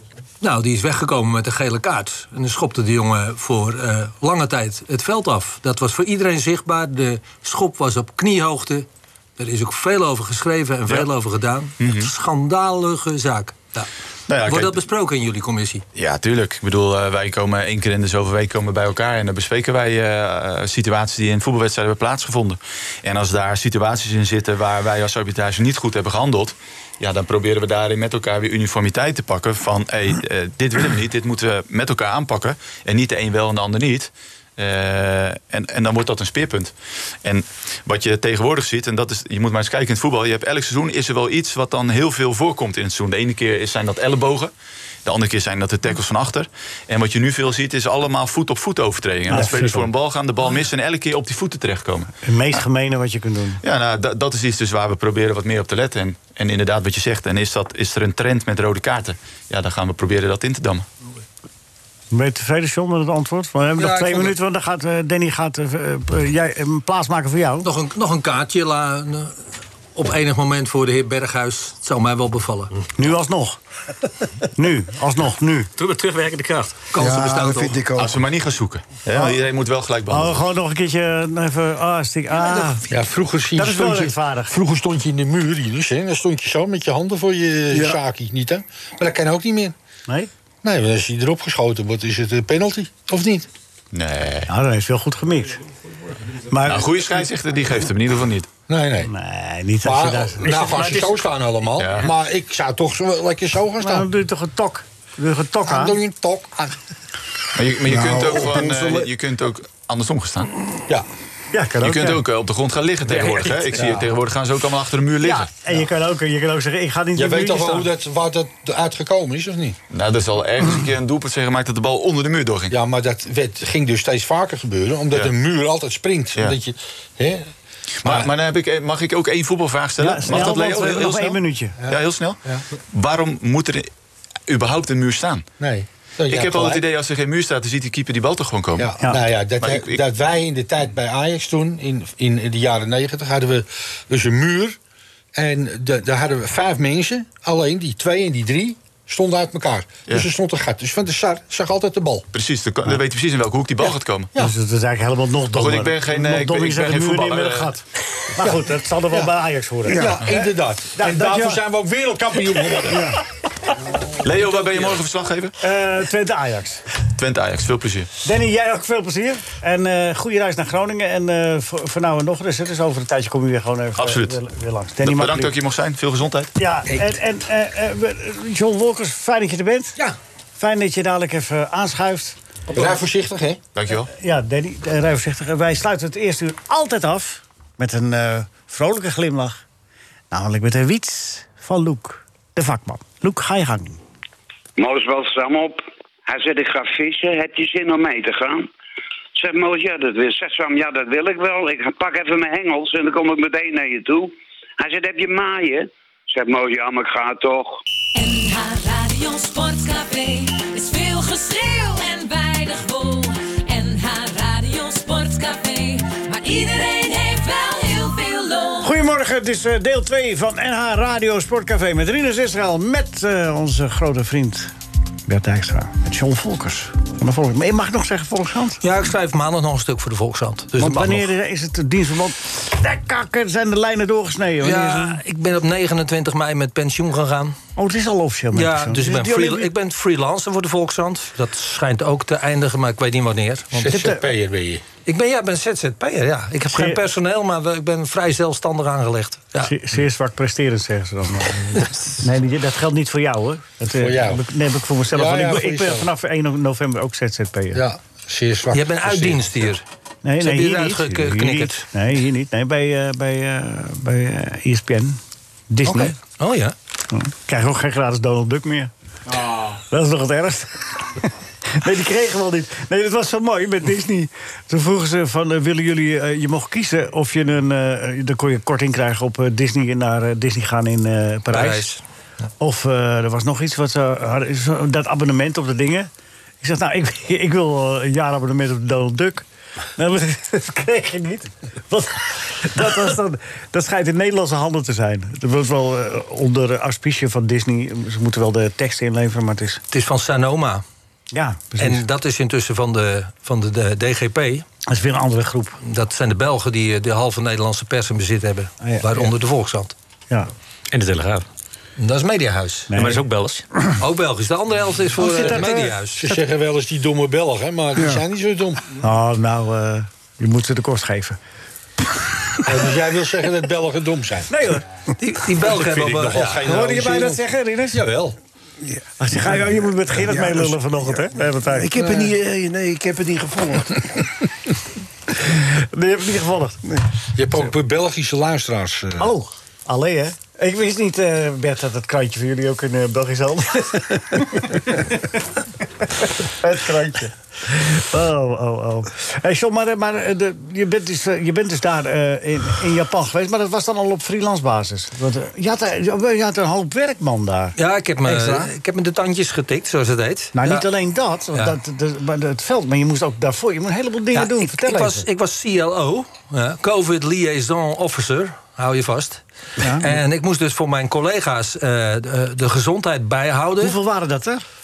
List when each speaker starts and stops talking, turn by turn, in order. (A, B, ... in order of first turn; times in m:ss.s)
0:00.4-0:13.9 A
0:11.8-0:12.1 B
0:14.3-0:14.8 B
0:14.4-0:15.8 A
0:16.0-0:36.7 B
0:37.2-0:44.5 B
0:45.0-0:52.1 B
0:49.3-0:49.9 C
0:52.2-0:53.6 C
0:53.6-1:00.9 B
1:02.1-1:07.7 C
1:03.8-1:04.4 A
1:07.6-1:09.4 A
1:10.0-1:12.8 A
1:13.0-1:13.6 C
1:14.6-1:15.7 C
1:15.8-1:16.8 D
1:16.9-1:17.8 A
1:17.0-1:18.2 E
1:18.0-1:20.4 B
1:20.1-1:22.9 C
1:22.9-1:29.8 F
1:23.6-1:24.6 C
1:27.7-1:28.0 E
1:30.6-1:33.5 F
1:33.9-1:34.5 B
1:34.5-1:35.6 C
1:36.5-1:37.2 C
1:36.6-1:38.5 B
1:38.7-1:39.1 F
1:39.1-1:41.2 C
1:39.8-1:44.1 F
1:41.8-1:42.1 B
1:43.8-1:46.0 C
1:45.7-1:46.8 F
1:47.6-1:50.5 B
1:47.8-1:49.1 E
1:51.5-1:52.2 C
1:51.8-1:55.5 B
1:53.1-1:54.0 F
1:55.2-1:57.9 C
1:57.2-1:59.8 F
1:59.9-2:02.7 B
2:02.7-2:07.5 F
2:08.0-2:12.4 B
2:08.0-2:08.3 F
2:10.0-2:11.8 C
2:11.8-2:12.6 F
2:12.9-2:13.9 B
2:14.5-2:15.5 B
2:15.6-2:16.8 F
2:16.3-2:18.9 B
2:18.8-2:24.8 F
2:19.6-2:20.0 B
2:25.4-2:32.3 F
2:32.3-2:34.3 B
2:34.4-2:41.6 C
2:35.5-2:37.7 B
2:38.4-2:39.3 F
2:39.9-2:43.1 F
2:39.9-2:40.2 E
2:42.9-2:43.2 C
2:44.0-2:45.0 F
2:44.2-2:45.5 B
2:45.6-2:46.8 C
2:47.2-2:48.1 B
2:48.2-2:55.5 C
2:54.0-2:54.4 B
2:55.0-2:56.5 B
2:56.6-3:00.0 C
3:00.6-3:02.4 C
3:02.7-3:03.6 F
3:03.8-3:04.1 B
3:04.1-3:09.6 C
3:10.3-3:14.0 C
3:14.8-3:18.7 G
3:19.4-3:27.8 G
3:28.2-3:39.0 H
3:38.8-3:44.7 C
3:45.3-3:48.8 C
3:48.8-3:51.2 A
3:50.8-3:55.2 C
3:54.6-3:57.6 A
3:57.8-3:59.7 C
3:58.5-4:04.0 A
4:03.8-4:04.8 F
4:03.9-4:04.2 C
4:05.1-4:09.7 A
4:06.7-4:07.0 C
4:09.6-4:17.8 C
4:13.9-4:14.4 F
4:15.1-4:16.1 F
4:17.7-4:19.7 F
4:18.7-4:19.8 A
4:20.2-4:26.2 C
4:20.4-4:21.9 A
4:25.9-4:26.8 A
4:27.1-4:28.9 C
4:29.5-4:41.9 C
4:41.5-4:42.0 A
4:42.6-4:46.1 C
4:46.6-4:49.4 C
4:50.0-4:59.8 C
4:59.9-5:00.8 A
5:01.3-5:02.0 C
5:01.8-5:04.7 A
5:04.9-5:05.8 C
5:05.8-5:09.9 A
5:08.8-5:09.3 C
5:10.9-5:11.4 D
5:12.0-5:12.9 A
5:12.9-5:13.2 C
5:12.9-5:13.6 D
5:14.0-5:16.3 A
5:15.2-5:15.9 C
5:15.4-5:18.8 F
5:18.0-5:18.2 E
5:19.0-5:21.4 C
5:22.6-5:24.5 F
5:24.5-5:24.8 C
5:25.2-5:26.6 A
5:25.6-5:28.4 F
5:26.6-5:28.0 C
5:28.8-5:34.2 E
5:29.2-5:31.9 C
5:32.0-5:32.3 F
5:35.5-5:36.8 C
5:37.4-5:39.3 F
5:39.2-5:45.4 C
5:46.0-5:58.7 C
5:57.8-6:00.9 A
6:00.5-6:05.3 C
6:04.3-6:14.0 A
6:09.8-6:10.1 C
6:13.8-6:14.6 C